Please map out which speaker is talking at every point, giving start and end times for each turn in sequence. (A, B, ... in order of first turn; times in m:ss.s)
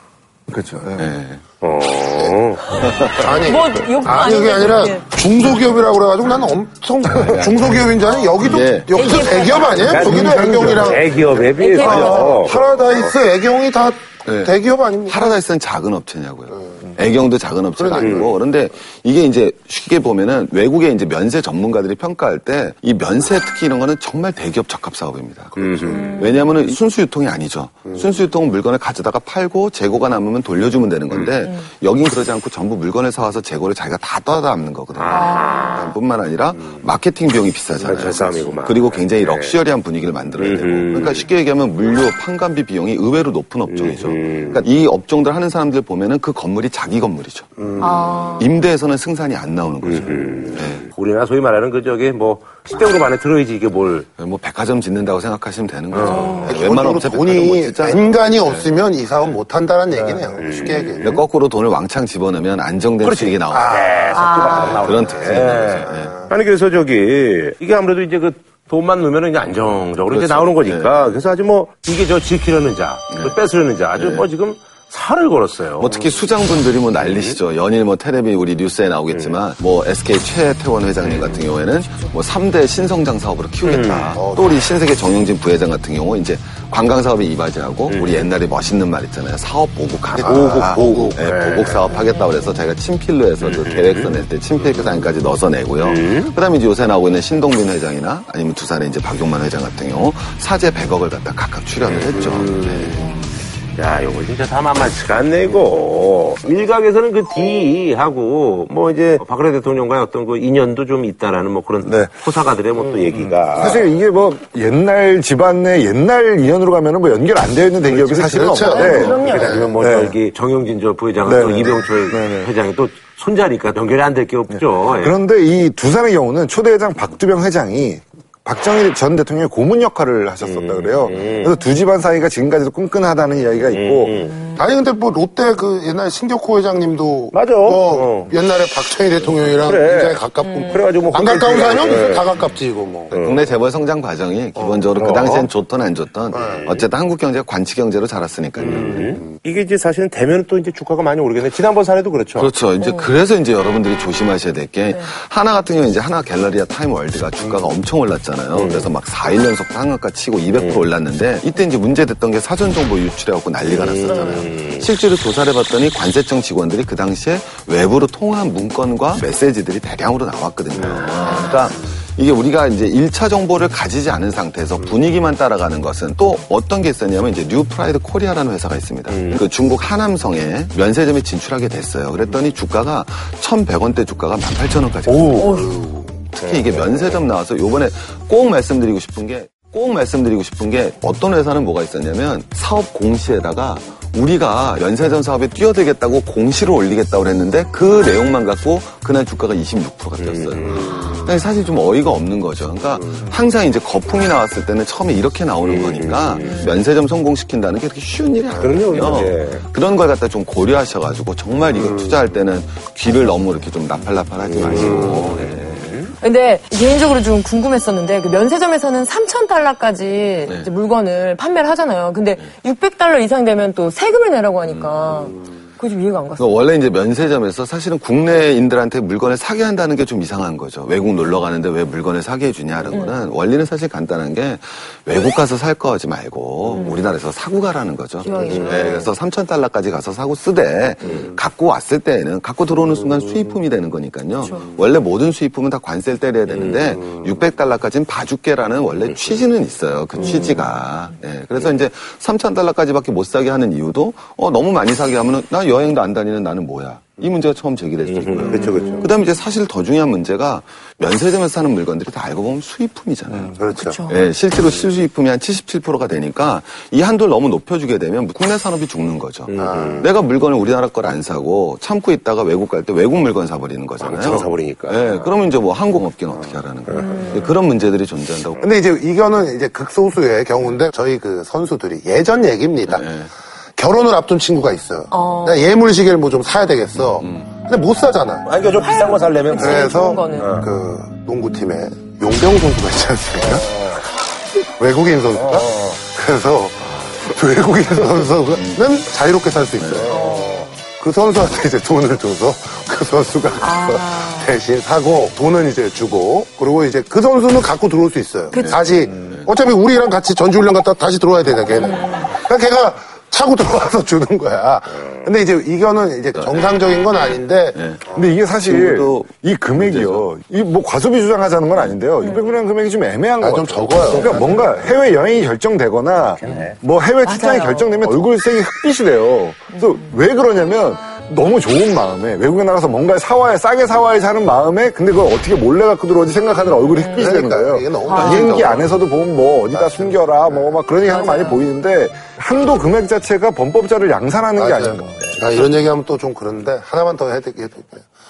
0:00.5-0:01.1 A
0:01.0-0:01.4 B
0:01.6-0:02.6 C
0:02.8-0:03.3 B
0:03.2-0:15.4 D
0:03.3-0:05.1 E
0:07.2-0:07.6 B
0:08.4-0:09.1 B
0:08.9-0:10.0 E
0:09.8-0:12.6 C
0:09.9-0:11.0 A
0:11.4-0:12.4 E
0:12.1-0:12.8 B
0:14.2-0:14.5 B
0:15.0-0:47.5 B
0:16.5-0:16.9 D
0:17.7-0:18.4 D
0:18.0-0:18.3 C
0:25.6-0:26.0 C
0:25.6-0:26.1 D
0:25.9-0:26.5 E
0:34.9-0:35.9 C
0:35.1-0:35.9 E
0:37.8-0:39.6 C
0:40.4-0:41.2 C
0:43.7-0:44.6 C
0:47.6-0:48.1 C
0:47.8-0:48.5 E
0:48.4-0:50.9 B
0:49.8-0:54.1 C
0:54.2-0:58.7 B
0:55.9-0:56.5 C
0:56.0-0:56.5 E
0:56.4-1:01.2 D
1:00.0-1:00.3 A
1:00.4-1:01.2 C
1:01.0-1:03.9 B
1:03.0-1:16.0 C
1:03.5-1:06.3 D
1:04.1-1:04.9 E
1:04.8-1:06.2 B
1:10.1-1:10.9 B
1:13.1-1:13.4 B
1:13.9-1:14.3 B
1:15.8-1:43.0 B
1:17.0-1:17.4 C
1:21.0-1:21.4 C
1:23.6-1:24.2 C
1:24.1-1:24.7 D
1:27.9-1:28.3 C
1:30.1-1:31.9 C
1:30.1-1:31.2 D
1:32.0-1:32.6 E
1:33.4-1:34.2 C
1:35.8-1:36.3 C
1:41.8-1:53.8 C
1:51.8-1:52.1 A
1:53.5-1:59.2 A
1:57.9-2:05.2 C
1:58.0-1:59.7 D
1:58.6-1:59.6 E
1:59.8-2:00.2 A
2:01.2-2:02.5 A
2:04.5-2:14.3 A
2:10.4-2:11.6 C
2:13.7-2:14.4 C
2:14.5-2:23.2 D
2:17.3-2:18.4 C
2:19.6-2:22.3 C
2:20.4-2:20.9 E
2:23.1-2:23.4 C
2:23.1-2:29.0 B
2:24.6-2:24.9 D
2:25.0-2:25.5 C
2:26.3-2:26.7 D
2:26.4-2:26.8 C
2:28.6-2:32.5 C
2:32.4-3:36.0 B
2:32.8-2:33.1 E
2:34.9-2:35.2 E
2:38.5-2:38.9 C
2:40.6-2:40.8 C
2:43.6-2:44.9 C
2:44.0-2:44.5 E
2:50.8-2:51.3 C
2:59.1-2:59.4 C
3:05.0-3:05.7 C
3:05.4-3:05.8 E
3:06.4-3:07.0 C
3:20.2-3:21.0 C
3:25.6-3:26.7 C
3:26.4-3:26.8 E
3:28.5-3:29.6 C
3:34.4-3:36.1 C
3:36.2-3:46.6 E
3:44.7-3:45.3 B
3:46.4-4:38.7 B
3:52.9-3:53.2 E
3:56.7-3:57.0 E
3:58.2-3:59.1 E
4:04.4-4:04.7 E
4:18.0-4:19.1 C
4:18.5-4:19.1 E
4:23.5-4:24.0 D
4:23.8-4:24.2 E
4:29.5-4:30.1 C
4:29.6-4:30.1 D
4:34.0-4:35.3 C
4:36.8-4:37.4 C
4:37.0-4:37.5 E
4:38.6-4:43.1 D
4:42.9-4:43.3 B
4:43.8-4:48.6 D
4:45.1-4:45.6 E
4:47.2-4:47.4 B
4:48.4-4:49.9 C
4:48.8-4:50.6 E
4:49.6-4:53.9 D
4:50.4-4:50.7 C
4:53.4-4:54.0 C
4:54.6-5:17.8 D
4:55.3-4:56.0 C
4:58.5-4:58.8 B
4:59.8-5:00.1 B
5:00.1-5:00.7 E
5:00.1-5:00.7 C
5:03.6-5:04.5 E
5:08.5-5:08.8 E
5:08.6-5:09.5 B
5:11.7-5:12.3 E
5:16.3-5:16.7 B
5:17.7-5:18.0 B
5:18.1-5:45.2 A
5:18.6-5:20.2 B
5:22.2-5:22.5 E
5:23.4-5:24.7 D
5:26.4-5:26.8 C
5:27.2-5:28.1 E
5:29.7-5:30.0 E
5:36.9-5:37.3 E
5:37.1-5:39.0 D
5:38.0-5:38.4 E
5:38.1-5:38.8 B
5:39.7-5:40.8 D
5:41.0-5:41.6 E
5:44.6-5:48.1 D